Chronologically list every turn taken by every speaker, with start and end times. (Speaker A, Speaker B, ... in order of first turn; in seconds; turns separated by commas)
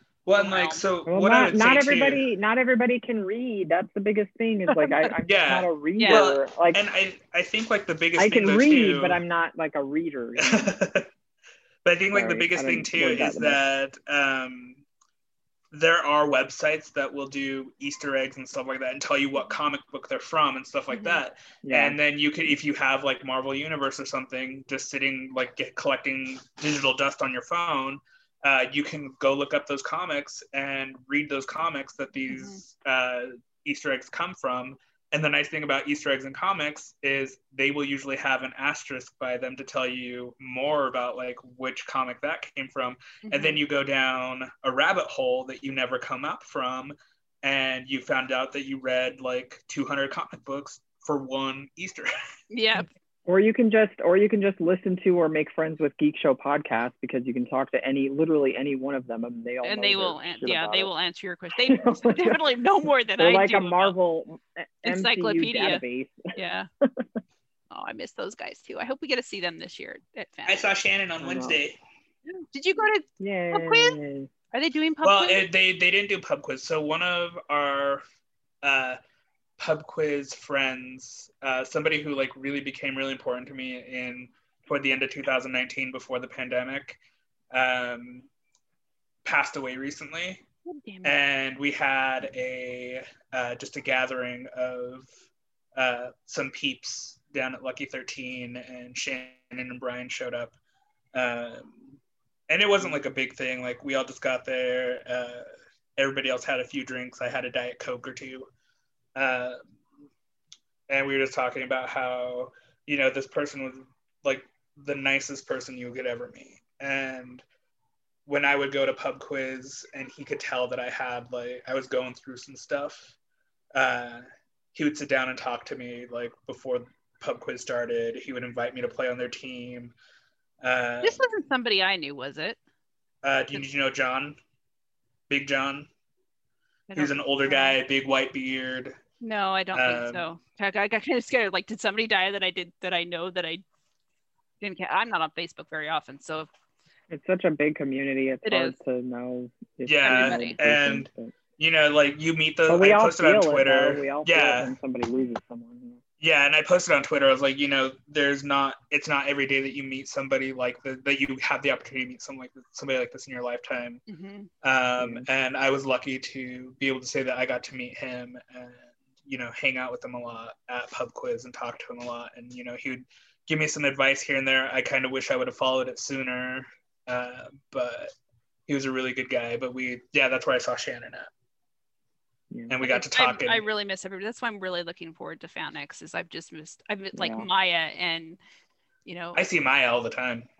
Speaker A: 0.2-2.2, Speaker B: 0.3-0.8, Speaker C: 1.1-6.8, Speaker B: 4.7-5.1, Speaker A: 5.2-9.2, Speaker B: 6.0-6.3, Speaker C: 8.2-10.8, Speaker A: 10.4-11.1, Speaker A: 11.8-14.8, Speaker C: 12.1-13.6, Speaker A: 15.7-52.1, Speaker B: 20.9-21.2, Speaker C: 21.6-22.0, Speaker B: 32.3-32.6, Speaker B: 43.2-43.6, Speaker B: 52.5-52.9, Speaker C: 53.2-60.9, Speaker B: 59.6-64.0, Speaker C: 61.6-62.4, Speaker C: 63.2-66.3, Speaker B: 64.8-65.8, Speaker B: 66.3-66.7, Speaker C: 66.8-67.1, Speaker B: 67.7-70.7, Speaker A: 70.5-71.8, Speaker C: 71.2-71.6, Speaker B: 72.3-74.0, Speaker C: 73.2-74.3, Speaker B: 74.5-75.4, Speaker A: 75.0-78.0, Speaker A: 78.6-79.0, Speaker A: 79.6-87.0, Speaker A: 87.5-88.3, Speaker A: 89.2-90.4, Speaker B: 90.7-91.1, Speaker A: 91.0-95.1, Speaker A: 95.8-100.5, Speaker A: 101.1-102.0, Speaker A: 102.5-108.5, Speaker A: 109.2-109.6, Speaker A: 110.9-117.4, Speaker A: 118.2-123.1, Speaker A: 123.7-129.9, Speaker A: 130.6-131.2, Speaker B: 131.0-132.6, Speaker A: 133.2-134.4, Speaker A: 135.3-135.9, Speaker B: 136.9-137.8, Speaker A: 136.9-139.0, Speaker B: 139.2-143.6, Speaker A: 139.7-140.2, Speaker B: 144.6-146.5, Speaker C: 147.1-151.3, Speaker B: 148.4-148.8, Speaker A: 149.8-154.7, Speaker B: 150.0-150.6, Speaker C: 152.7-156.0, Speaker A: 156.2-164.0, Speaker B: 164.1-164.5, Speaker A: 164.6-178.1, Speaker C: 165.0-165.2, Speaker A: 178.7-181.3, Speaker A: 182.7-183.6, Speaker B: 182.8-188.4, Speaker C: 187.1-187.5, Speaker B: 189.0-189.4, Speaker A: 189.3-190.4